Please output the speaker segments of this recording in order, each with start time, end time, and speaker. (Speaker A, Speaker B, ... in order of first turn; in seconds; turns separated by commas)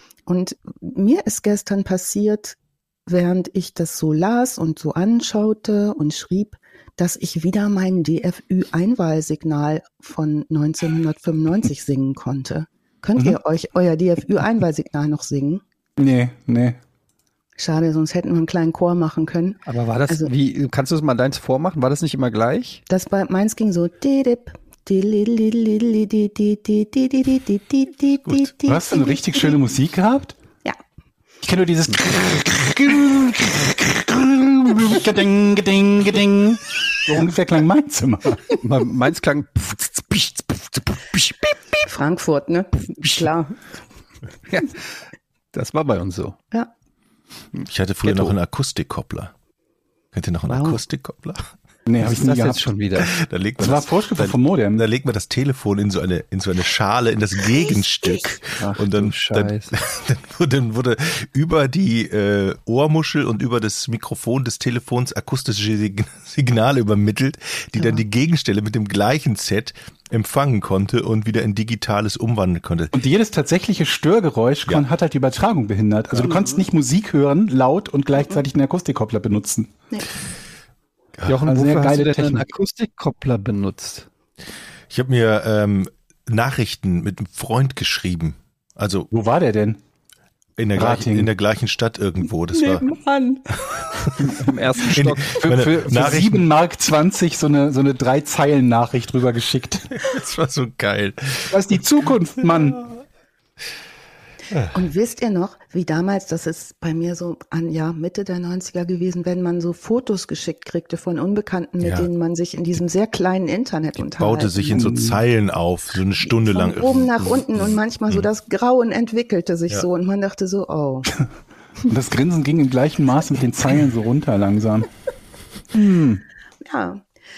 Speaker A: 0.2-15.6, Speaker B: 16.0-16.8, Speaker A: 17.6-20.3, Speaker C: 19.7-22.8, Speaker A: 22.9-29.6, Speaker B: 28.6-30.4, Speaker B: 31.4-38.5, Speaker C: 38.6-41.8, Speaker A: 41.8-43.6, Speaker C: 44.5-45.0, Speaker C: 45.5-46.4, Speaker C: 47.6-48.3, Speaker D: 47.7-49.3, Speaker D: 50.1-51.5, Speaker A: 50.5-50.8, Speaker B: 51.9-52.7, Speaker C: 52.0-53.1, Speaker D: 53.0-73.0, Speaker B: 53.6-54.8, Speaker C: 58.6-59.8, Speaker A: 67.8-68.0, Speaker B: 72.9-79.7, Speaker A: 76.3-76.6, Speaker C: 81.2-84.1, Speaker B: 81.4-82.4, Speaker D: 84.9-89.1, Speaker B: 89.1-89.8, Speaker D: 90.6-92.8, Speaker B: 90.7-91.3, Speaker A: 92.5-94.1, Speaker D: 94.0-96.4, Speaker C: 94.3-95.6, Speaker B: 95.4-99.9, Speaker D: 100.0-101.8, Speaker B: 101.5-102.8, Speaker D: 104.5-104.8, Speaker A: 104.7-114.9, Speaker D: 111.8-112.1, Speaker D: 114.0-118.3, Speaker B: 114.7-115.2, Speaker A: 116.2-121.1, Speaker B: 121.9-124.9, Speaker B: 125.7-126.2, Speaker A: 126.6-127.0